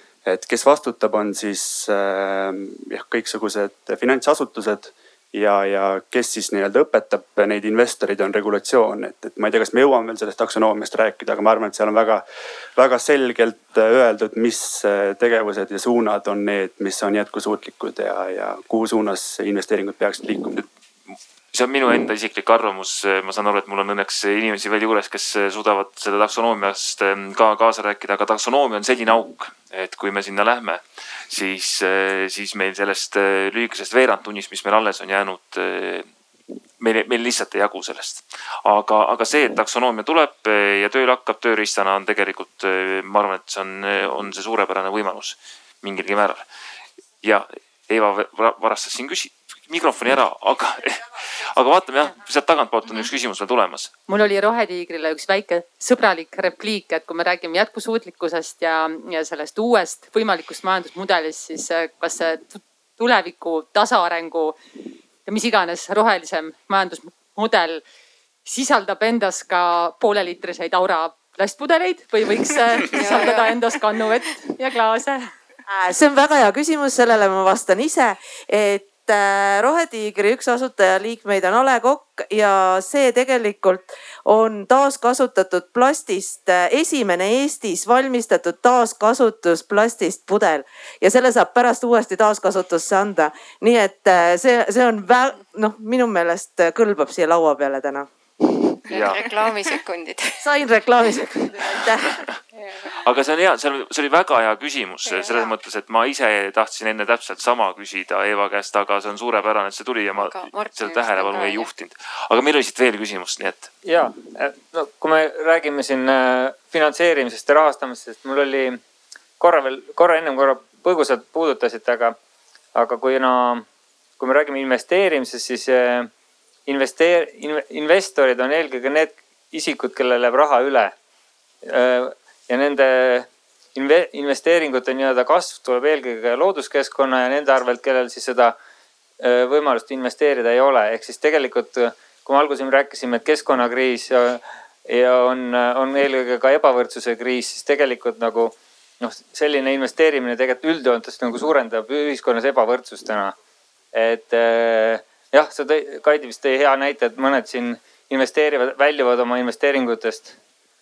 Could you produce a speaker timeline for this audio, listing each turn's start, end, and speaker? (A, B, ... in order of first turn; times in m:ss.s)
0:00.2-0:20.6 A
0:21.1-0:36.1 B
0:36.8-0:46.4 B
0:47.2-0:53.9 B
0:54.1-1:04.6 C
1:05.2-1:07.8 C
1:08.4-1:15.3 C
1:12.9-1:13.6 D
1:15.7-1:38.1 E
1:38.9-1:40.4 D
1:38.9-1:39.2 B
1:40.4-1:42.2 E
1:42.9-1:53.7 B
1:45.0-1:45.4 D
1:50.2-1:51.7 D
1:53.8-1:58.8 F
1:59.4-2:02.2 F
2:02.7-2:03.6 F
2:04.2-2:06.1 F
2:06.7-2:10.9 F
2:11.6-2:18.6 F
2:19.2-2:33.4 F
2:33.9-2:40.4 F